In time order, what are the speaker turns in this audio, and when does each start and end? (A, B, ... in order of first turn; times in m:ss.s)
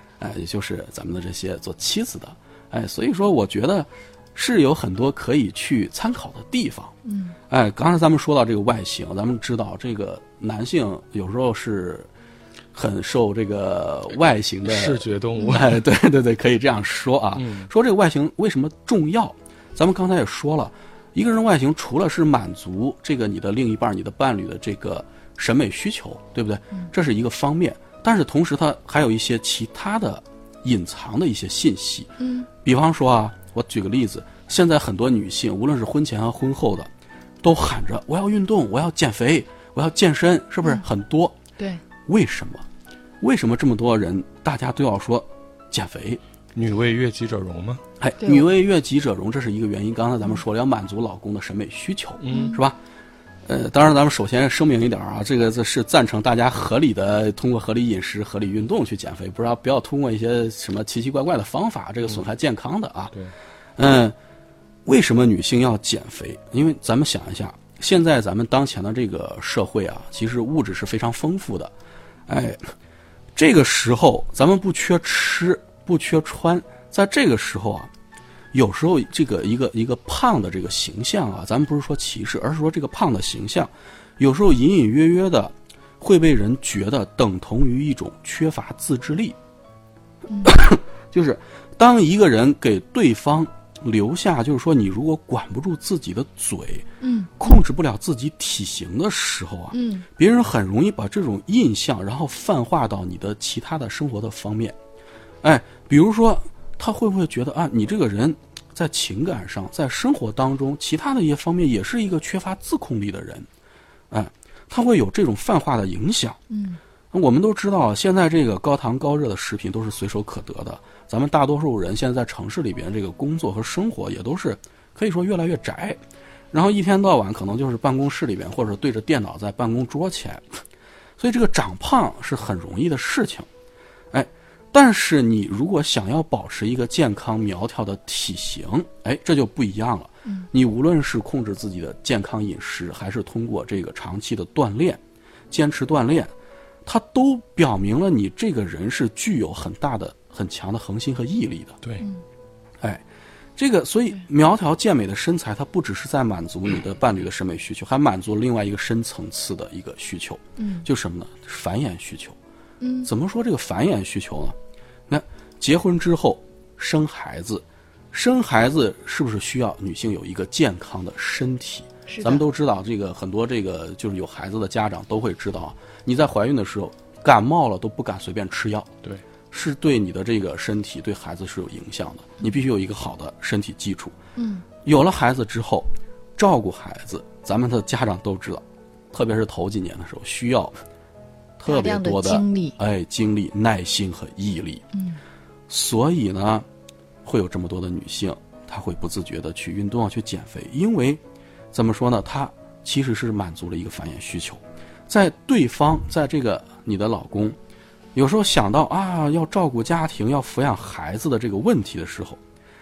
0:00.2-0:06.9 A
0:07.0-0:07.3 B
0:07.5-0:12.1 A
0:12.7-0:32.1 A
0:14.6-0:15.8 C
0:17.3-0:17.7 C
0:32.2-0:32.5 B
0:32.6-0:36.9 A
0:37.4-0:41.4 A
0:42.0-0:42.6 A
0:43.2-0:46.2 A
0:46.5-0:47.8 C
0:48.0-0:52.8 A
0:52.2-0:52.5 C
0:52.3-0:52.6 B
0:53.4-1:03.1 A
1:03.8-1:04.2 A
1:04.8-1:11.7 A
1:12.3-1:12.7 A
1:13.3-1:17.9 A
1:18.5-1:29.4 A
1:30.3-1:30.5 B
1:30.4-1:36.9 A
1:37.0-1:37.6 B
1:37.4-1:44.8 A
1:39.7-1:40.0 B
1:45.4-1:53.5 A
1:54.1-1:56.4 A
1:56.5-1:56.8 B
1:57.1-2:06.0 A
2:06.5-2:10.6 A
2:11.2-2:13.5 A
2:14.1-2:26.3 A
2:26.8-2:31.8 A
2:33.6-2:42.4 A
2:40.6-2:40.9 B
2:42.8-2:43.1 B
2:43.0-2:44.6 A
2:45.1-2:58.9 A
2:52.1-2:52.4 B
2:59.5-3:04.2 A
3:04.4-3:04.6 B
3:04.8-3:10.8 A
3:11.6-3:14.8 A
3:11.6-3:12.8 B
3:14.9-3:15.2 B
3:15.7-3:16.6 A
3:17.2-3:21.2 A
3:21.7-3:27.6 A
3:28.1-3:32.4 A